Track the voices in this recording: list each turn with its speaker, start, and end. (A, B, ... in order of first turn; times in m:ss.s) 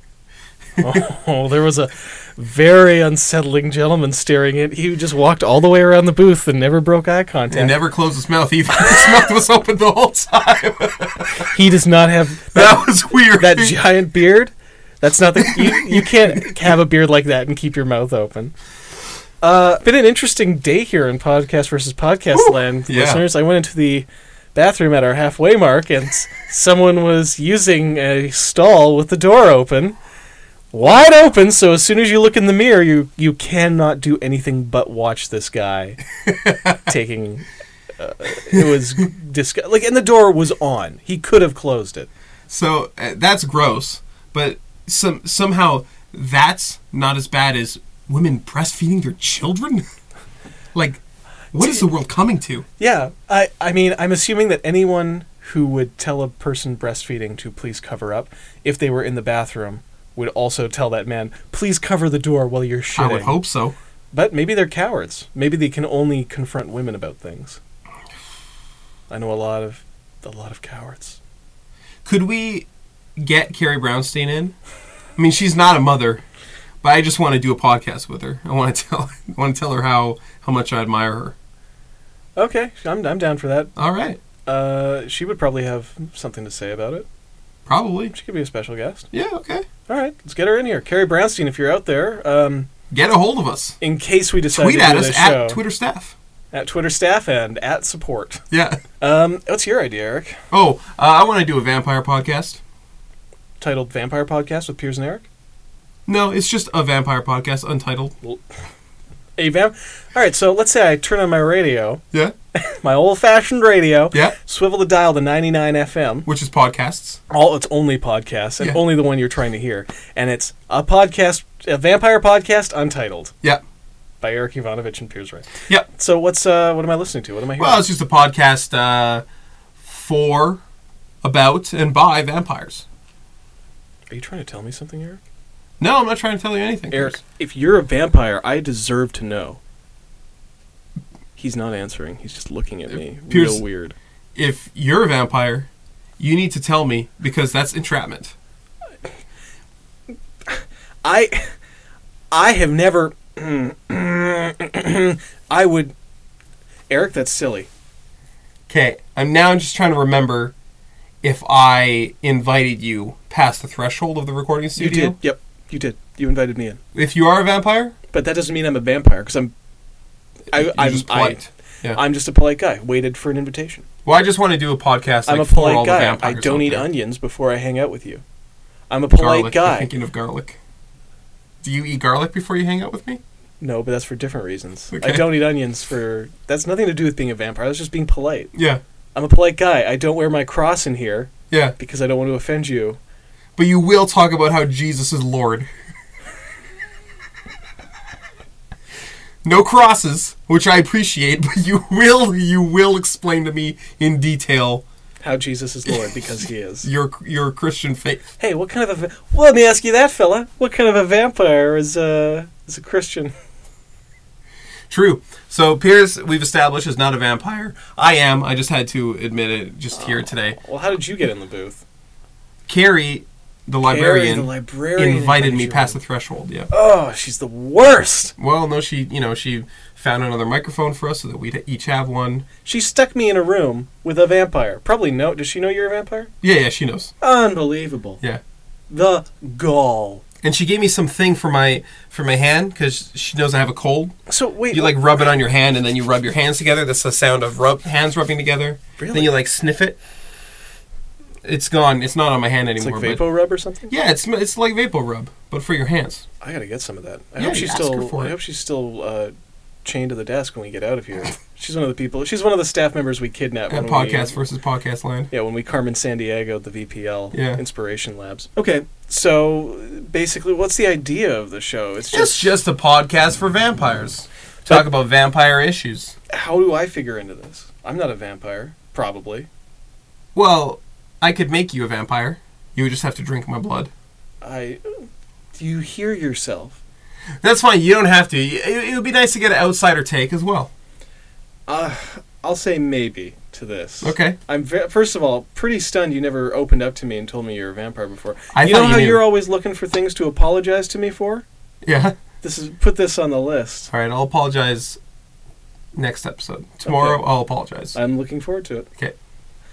0:00.8-0:07.8 A
0:07.5-0:11.5 B
0:08.8-0:09.1 A
0:11.5-0:18.5 A
0:12.5-0:13.8 B
0:15.4-0:16.4 B
0:19.4-0:30.0 A
0:22.3-0:23.2 B
0:30.7-0:36.0 A
0:36.3-0:36.9 B
0:36.8-0:37.5 A
0:38.0-0:42.1 A
0:42.5-0:49.9 B
0:50.7-0:51.0 B
0:51.5-0:52.6 B
0:52.8-1:03.4 A
1:03.0-1:03.8 B
1:04.1-1:07.6 A
1:09.1-1:11.2 A
1:12.0-1:14.6 B
1:15.2-1:16.2 B
1:16.8-1:21.4 B
1:22.4-1:23.7 A
1:23.8-1:24.2 B
1:24.5-1:27.1 A
1:27.7-1:28.1 B
1:28.1-1:29.1 A
1:29.1-1:29.7 B
1:29.9-1:32.7 A
1:32.9-1:33.8 B
1:33.8-1:35.6 A
1:34.5-1:36.2 B
1:36.5-1:38.4 A
1:38.5-1:38.8 B
1:39.0-1:40.4 A
1:40.5-1:42.6 B
1:43.6-1:45.3 A
1:46.1-1:48.2 B
1:49.4-1:52.0 A
1:52.6-1:56.3 A
1:56.3-1:57.2 B
1:57.3-2:03.4 A
2:04.2-2:07.9 A
2:07.6-2:09.2 B
2:09.8-2:10.6 B
2:11.2-2:12.8 B
2:14.1-2:15.2 A
2:15.8-2:17.2 B
2:16.9-2:19.6 A
2:21.4-2:24.0 A
2:22.9-2:23.6 B
2:24.4-2:28.4 B
2:30.5-2:31.5 A
2:32.3-2:36.0 A
2:36.9-2:37.7 A
2:38.7-2:40.5 B
2:41.2-2:45.2 B
2:44.8-2:46.8 A
2:47.0-2:48.0 B
2:48.1-2:49.5 A
2:50.5-2:53.8 A
2:50.5-2:52.0 B
2:54.0-2:56.9 B
2:55.3-2:58.2 A
2:58.9-2:59.9 A
2:59.2-3:00.6 B
3:01.6-3:03.2 B
3:03.6-3:08.5 A
3:04.9-3:05.4 B
3:08.5-3:08.8 B
3:09.2-3:13.0 A
3:13.6-3:15.7 B
3:19.4-3:24.8 B
3:25.2-3:26.9 A
3:26.8-3:28.3 B
3:28.4-3:33.3 A
3:34.9-3:40.6 B
3:40.0-3:41.8 A
3:42.7-3:46.7 B
3:43.8-3:46.0 A
3:46.7-3:48.4 A
3:48.4-3:52.5 B
3:52.6-3:56.3 A
3:56.4-3:57.1 B
3:57.2-3:58.2 A
3:58.9-4:00.2 A
4:00.4-4:04.1 B
4:04.3-4:05.0 A
4:04.7-4:10.0 B
4:09.0-4:09.3 A
4:11.4-4:13.2 B
4:12.8-4:13.9 A
4:13.9-4:16.2 B
4:16.4-4:19.3 A
4:17.4-4:18.4 B
4:19.8-4:24.4 A
4:23.7-4:25.3 B
4:25.3-4:32.5 A
4:27.3-4:27.6 B
4:32.1-4:36.1 B
4:36.3-4:39.5 A
4:40.4-4:43.9 B
4:44.4-4:45.0 A
4:45.6-4:46.8 A
4:47.4-4:50.7 B
4:51.7-5:01.4 A
4:54.0-4:54.4 B
4:58.5-4:59.3 B
5:01.8-5:02.2 B
5:02.4-5:03.9 A
5:03.9-5:05.0 B
5:06.0-5:08.0 B
5:06.8-5:07.2 A
5:07.9-5:08.9 A